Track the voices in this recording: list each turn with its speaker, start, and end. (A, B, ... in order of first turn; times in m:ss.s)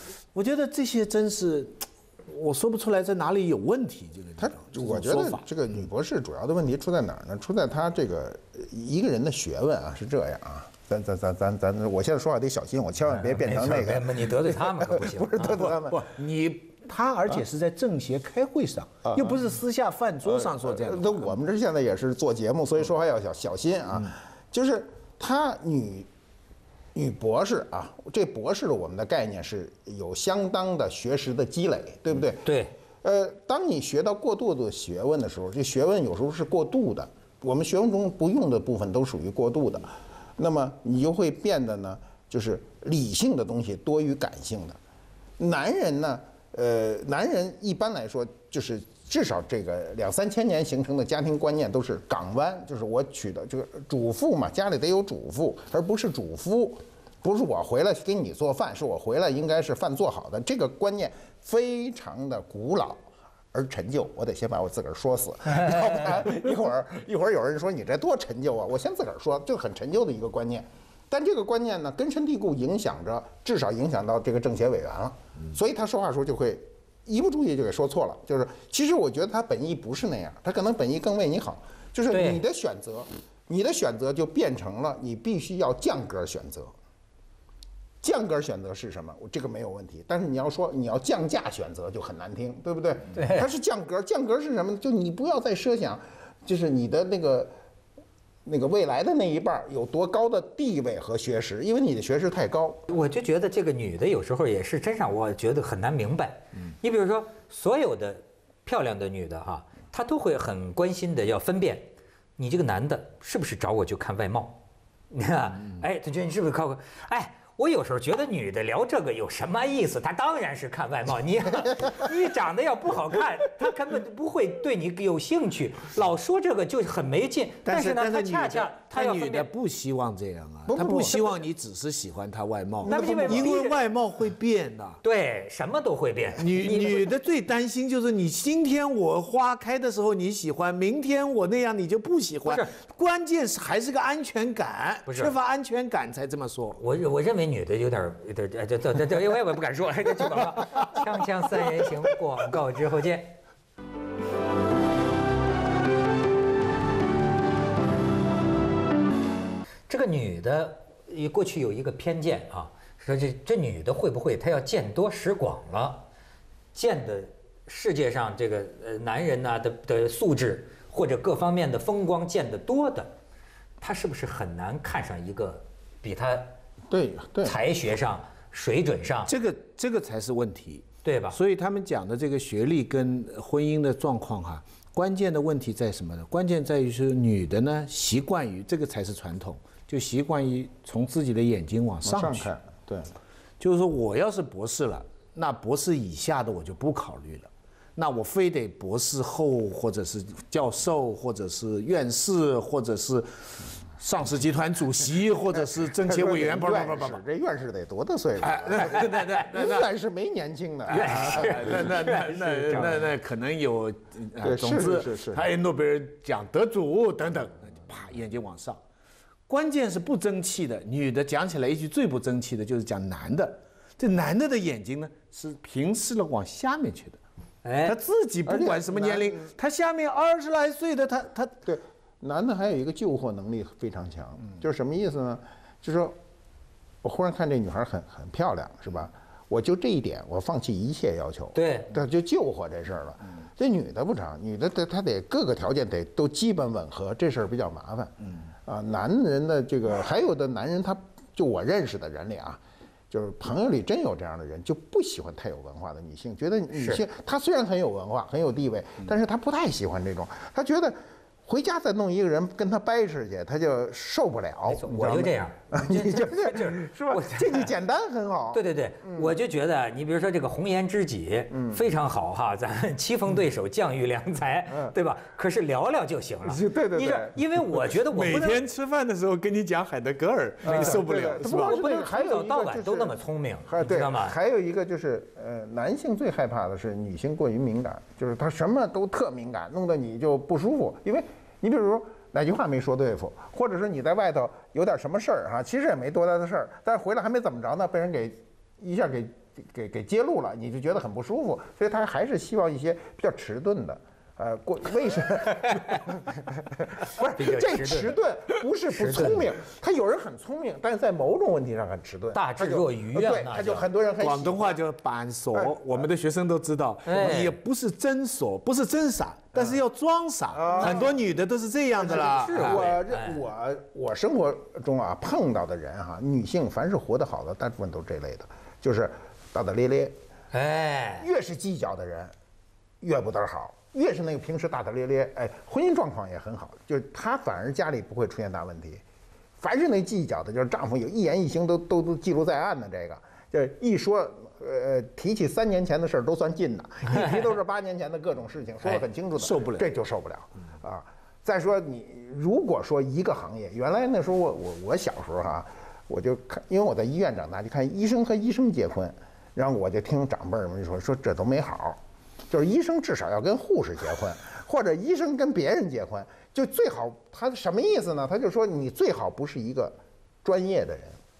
0:00.3-0:05.4 A
0:04.4-0:16.1 B
0:13.3-0:15.7 C
0:16.0-0:21.4 A
0:19.0-0:19.4 B
0:20.2-0:26.1 B
0:26.9-0:32.5 B
0:32.4-0:32.7 C
0:33.0-0:44.8 B
0:45.4-1:26.7 B
1:22.1-1:22.4 C
1:28.0-1:37.5 B
1:33.1-1:33.5 C
1:38.4-1:42.8 B
1:42.9-1:54.6 C
1:55.1-2:09.5 C
2:07.6-2:15.0 A
2:10.7-2:11.2 B
2:12.8-2:13.6 B
2:12.8-2:13.8 C
2:15.0-2:17.1 C
2:16.4-2:26.8 A
2:22.4-2:22.7 C
2:25.1-2:25.3 C
2:26.8-2:33.3 C
2:39.9-2:46.0 C
2:46.7-2:53.1 C
2:53.8-2:56.5 C
2:56.9-2:57.6 B
2:57.4-2:59.3 C
2:59.3-3:12.5 A
3:01.0-3:01.4 C
3:12.0-3:13.1 B
3:13.6-3:27.2 A
3:26.0-3:31.8 B
3:28.4-3:29.9 A
3:30.9-3:33.0 C
3:30.9-3:38.8 A
3:34.4-3:35.5 B
3:39.5-3:47.2 A
3:47.6-3:48.0 C
3:47.8-3:51.6 A
3:48.4-3:49.5 B
3:51.6-3:56.2 B
3:57.0-4:08.1 B
4:01.5-4:01.9 C
4:08.6-4:29.3 B
4:16.7-4:17.0 C
4:24.7-4:27.7 C
4:28.5-4:38.6 C
4:31.5-4:31.8 B
4:36.4-4:37.4 B
4:38.1-4:41.8 A
4:40.6-5:14.8 B
4:40.7-4:44.4 C
5:07.1-5:08.2 C
5:08.9-5:09.5 C
5:12.3-5:13.8 C
5:14.2-5:22.9 A
5:17.0-5:17.6 C
5:20.5-5:21.2 B
5:20.8-5:21.1 C
5:22.0-5:23.4 C
5:22.1-5:30.1 B
5:30.5-5:31.3 C
5:31.2-5:32.3 B
5:33.0-5:39.0 B
5:39.6-6:11.2 B
5:48.8-5:49.9 A